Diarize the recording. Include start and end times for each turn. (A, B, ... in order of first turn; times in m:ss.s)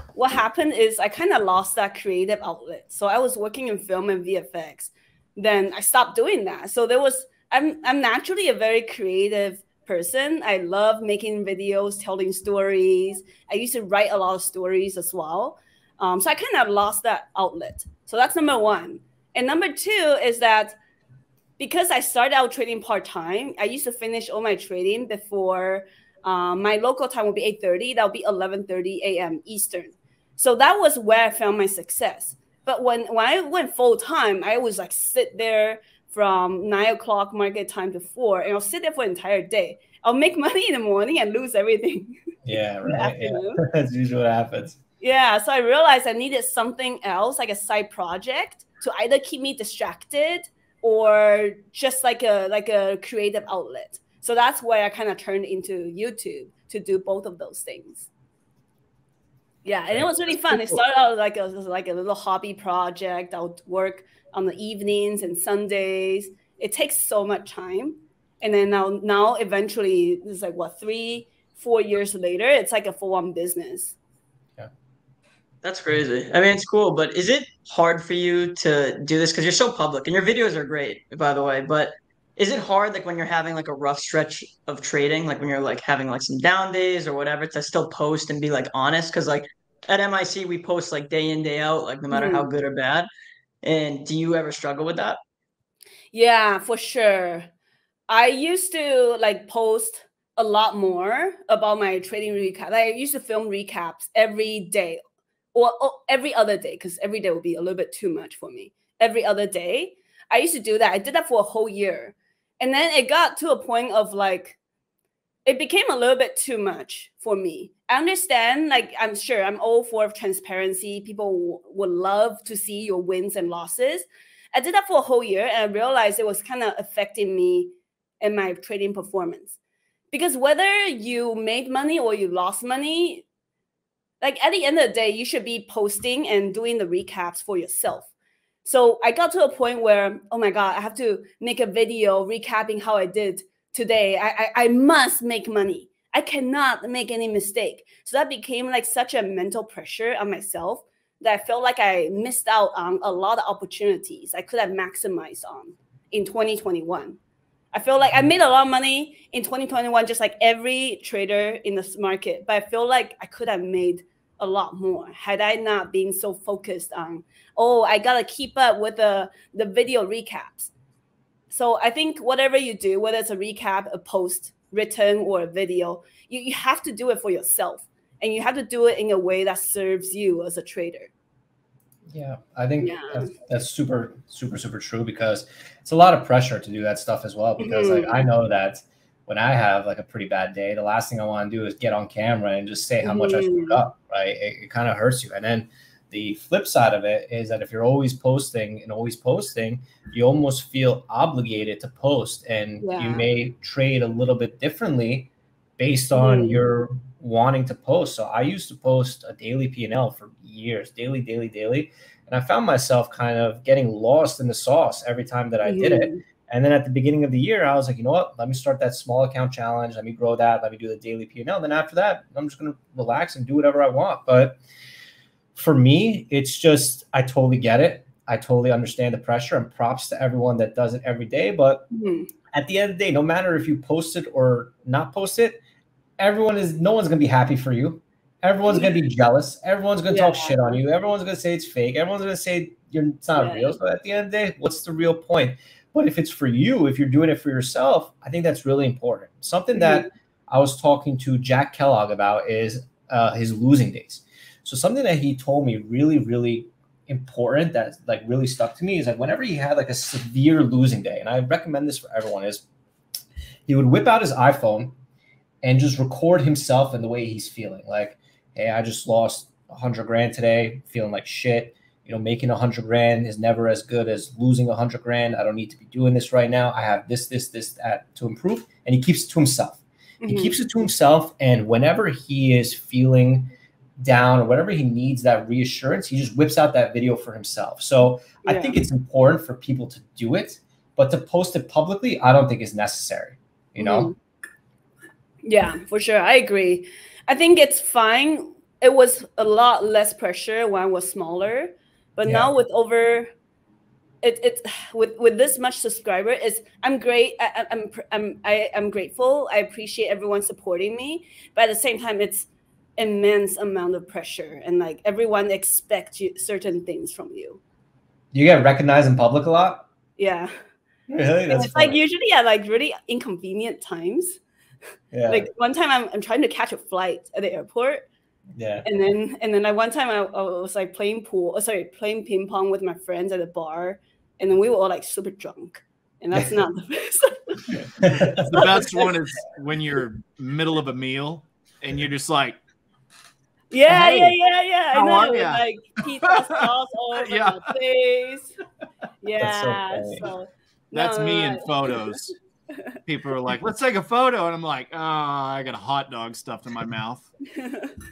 0:00.2-0:20.8 A
0:21.6-0:42.2 A
0:42.4-0:44.8 B
0:42.8-0:43.6 A
0:45.0-0:58.1 A
0:59.6-1:14.0 A
1:15.6-1:33.1 C
1:32.1-1:32.5 A
1:33.6-1:35.2 C
1:36.1-1:37.5 A
1:38.1-1:45.0 A
1:45.5-1:54.6 A
1:55.5-2:09.6 A
2:10.1-2:13.2 A
2:14.2-2:18.1 A
2:18.6-2:37.2 A
2:37.7-2:50.7 A
2:51.5-3:01.1 A
3:02.1-3:44.6 B
3:02.8-3:03.3 A
3:07.6-3:08.2 A
3:13.0-3:13.8 A
3:22.8-3:23.3 A
3:26.2-3:26.6 A
3:35.6-3:36.2 A
3:45.6-3:51.9 B
3:51.9-3:52.3 A
3:52.5-3:55.6 B
3:56.2-4:22.6 B
4:00.1-4:00.8 A
4:03.4-4:03.8 A
4:09.7-4:10.1 A
4:23.7-4:25.0 B
4:25.6-4:54.1 B
4:40.2-4:40.5 A
4:48.4-4:48.8 A
4:53.8-4:54.2 A
4:55.4-5:03.3 A
5:02.2-5:02.5 B
5:04.2-5:17.6 A
5:18.3-5:19.9 B
5:20.2-5:20.5 A
5:21.1-5:22.0 B
5:21.5-5:24.4 A
5:25.1-5:25.5 B
5:25.3-5:28.1 A
5:28.6-5:28.8 B
5:28.8-5:37.7 A
5:38.0-5:38.6 B
5:38.1-5:42.6 D
5:38.5-5:39.1 A
5:43.7-5:48.6 A
5:43.9-5:44.4 D
5:44.9-5:47.7 D
5:49.2-5:52.2 A
5:49.4-5:50.3 B
5:50.9-5:52.3 D
5:53.1-5:57.3 D
5:57.6-5:57.9 A